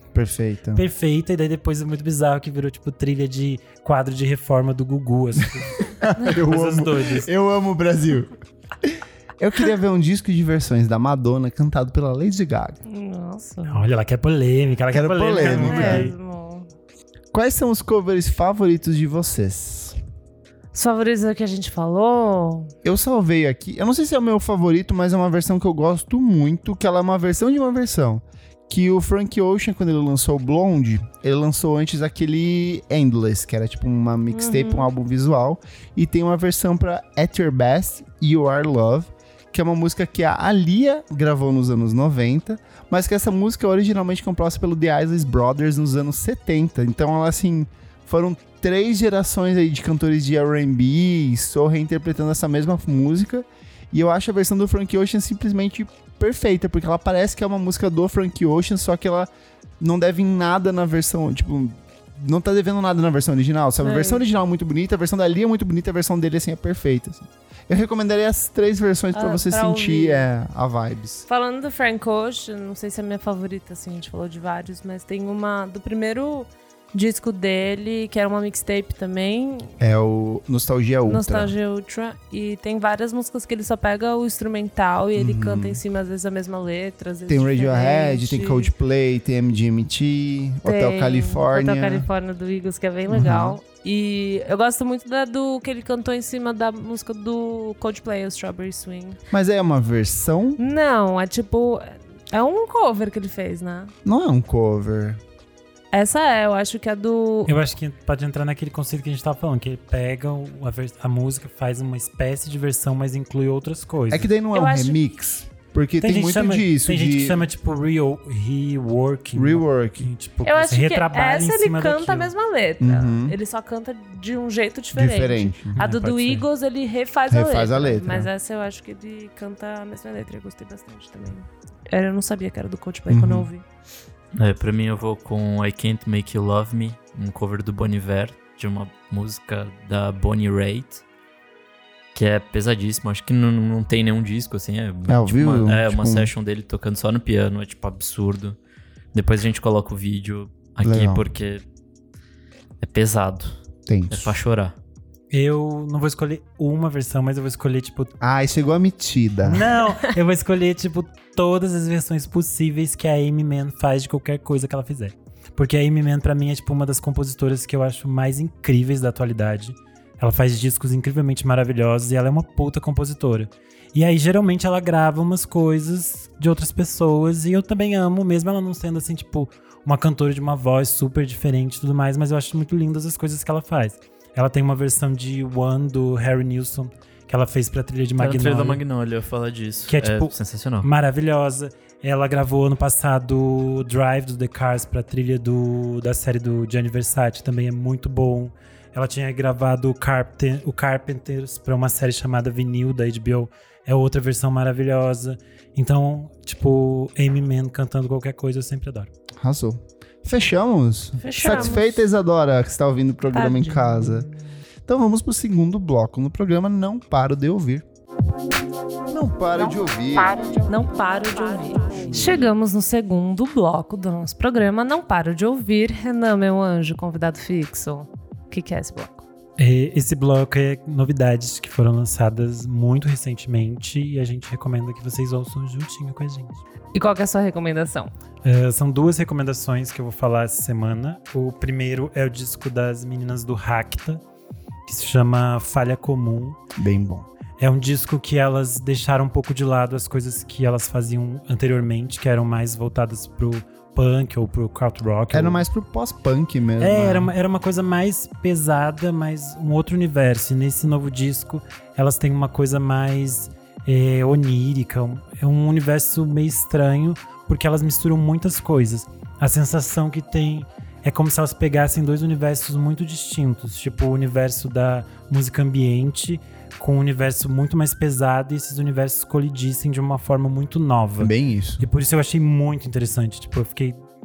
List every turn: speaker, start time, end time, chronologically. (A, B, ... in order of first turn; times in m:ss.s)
0:00.1-0:00.8 A
0:00.8-0:07.3 B
0:05.8-0:12.8 A
0:12.9-0:13.8 C
0:13.7-0:16.2 B
0:14.9-0:16.1 A
0:15.4-0:16.7 C
0:17.3-0:20.0 A
0:20.7-0:22.7 C
0:22.8-0:59.3 A
0:34.3-0:34.9 C
0:59.8-1:11.3 A
1:03.8-1:04.2 C
1:09.1-1:10.3 C
1:11.3-1:19.8 C
1:19.8-1:21.5 A
1:21.1-1:28.7 C
1:25.2-1:25.8 A
1:27.3-1:32.1 A
1:30.6-1:39.2 C
1:33.1-1:33.6 A
1:39.3-1:40.6 A
1:40.6-1:43.9 C
1:44.0-1:45.2 A
1:45.9-1:47.6 C
1:47.5-1:54.3 B
1:54.1-1:57.4 A
1:54.5-1:55.0 C
1:56.0-2:02.3 B
1:59.4-2:00.1 A
2:00.4-2:13.6 C
2:02.8-2:03.4 A
2:04.9-2:05.8 A
2:05.8-2:06.5 B
2:07.3-2:08.3 A
2:13.1-2:13.5 A
2:14.4-2:21.0 D
2:22.2-2:28.6 D
2:25.1-2:26.3 A
2:29.1-2:31.6 D
2:30.8-2:31.2 A
2:32.8-2:33.6 D
2:33.9-2:34.4 A
2:34.1-2:34.8 D
2:35.3-2:38.1 B
2:38.2-2:39.7 A
2:39.4-3:08.8 B
3:08.2-3:10.9 D
3:09.9-3:29.1 B
3:29.4-3:34.3 A
3:31.2-3:32.0 C
3:33.3-3:34.4 C
3:34.9-3:37.8 A
3:39.1-3:40.4 A
3:40.6-3:49.2 C
3:49.6-3:56.6 B
3:56.9-3:58.1 C
3:58.4-4:04.2 B
4:04.9-4:06.6 B
4:06.8-4:07.3 A
4:07.6-4:15.7 B
4:15.3-4:17.3 A
4:16.8-4:44.0 B
4:41.2-4:41.8 A